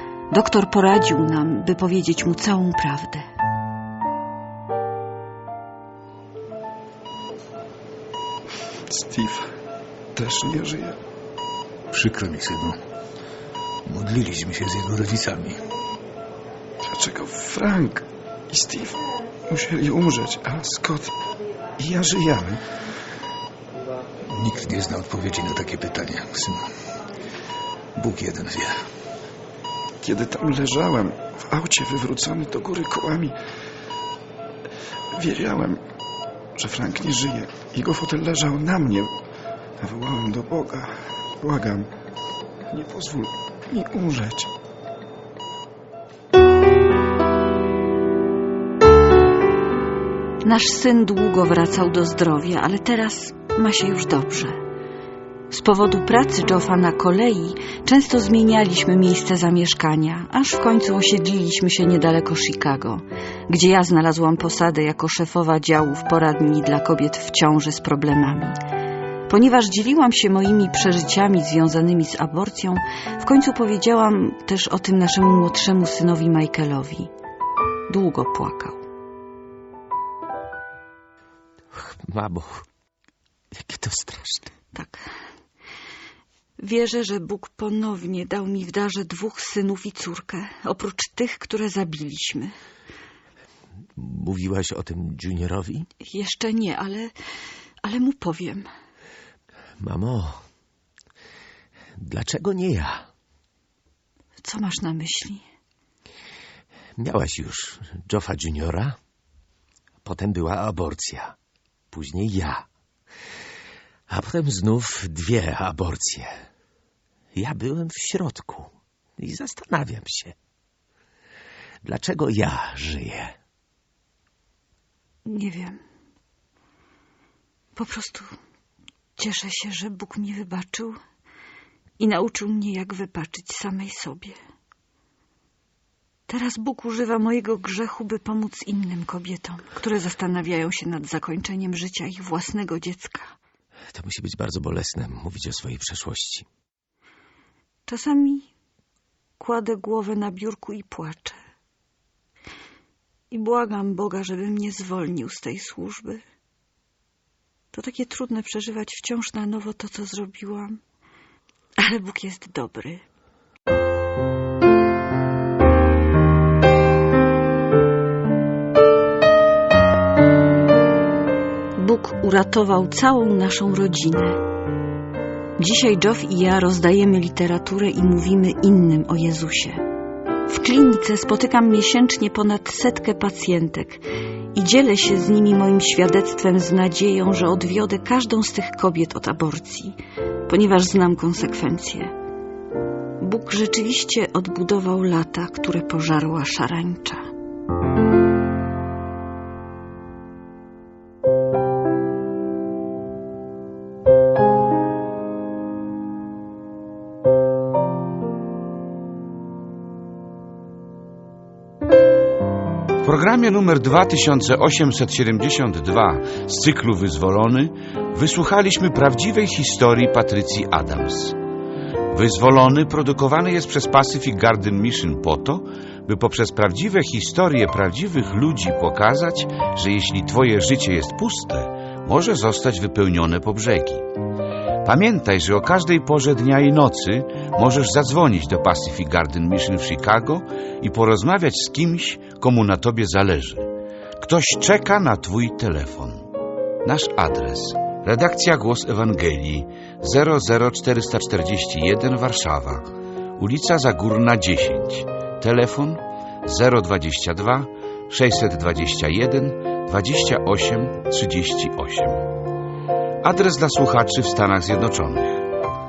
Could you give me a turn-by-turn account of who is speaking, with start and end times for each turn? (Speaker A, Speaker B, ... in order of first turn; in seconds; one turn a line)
Speaker A: 0.3-3.2
Speaker B: 8.9-9.5
Speaker B: 10.1-11.0
Speaker C: 11.9-12.8
Speaker C: 13.8-15.6
Speaker B: 16.9-21.2
Speaker B: 21.8-22.6
Speaker C: 24.2-26.6
Speaker C: 27.9-28.7
Speaker B: 30.0-33.4
Speaker B: 35.1-35.8
Speaker B: 36.5-39.1
Speaker B: 39.8-41.9
Speaker B: 42.7-44.5
Speaker A: 50.4-54.6
Speaker A: 55.5-68.6
Speaker A: 69.3-77.1
Speaker A: 77.9-78.8
Speaker D: 81.7-82.6
Speaker D: 83.5-84.5
Speaker A: 84.7-85.0
Speaker A: 86.6-92.5
Speaker D: 94.0-95.9
Speaker A: 96.0-97.1
Speaker A: 97.8-98.7
Speaker D: 99.8-100.4
Speaker D: 102.0-103.1
Speaker A: 104.4-105.4
Speaker D: 107.0-109.0
Speaker D: 110.0-111.3
Speaker D: 111.9-112.7
Speaker D: 114.1-116.4
Speaker D: 117.3-120.3
Speaker D: 121.8-123.3
Speaker A: 125.2-125.8
Speaker A: 127.8-128.3
Speaker A: 129.2-131.0
Speaker A: 132.0-134.4
Speaker A: 136.3-143.3
Speaker D: 143.9-146.5
Speaker A: 147.9-148.5
Speaker A: 149.4-151.4
Speaker A: 153.3-156.2
Speaker A: 157.7-160.8
Speaker A: 161.8-163.0
Speaker A: 171.8-174.4
Speaker A: 175.6-179.8
Speaker A: 180.5-184.0
Speaker A: 184.5-192.1
Speaker A: 193.2-197.2
Speaker E: 213.0-221.3
Speaker E: 222.1-234.1
Speaker E: 234.8-246.2
Speaker E: 246.8-262.3
Speaker E: 263.2-265.5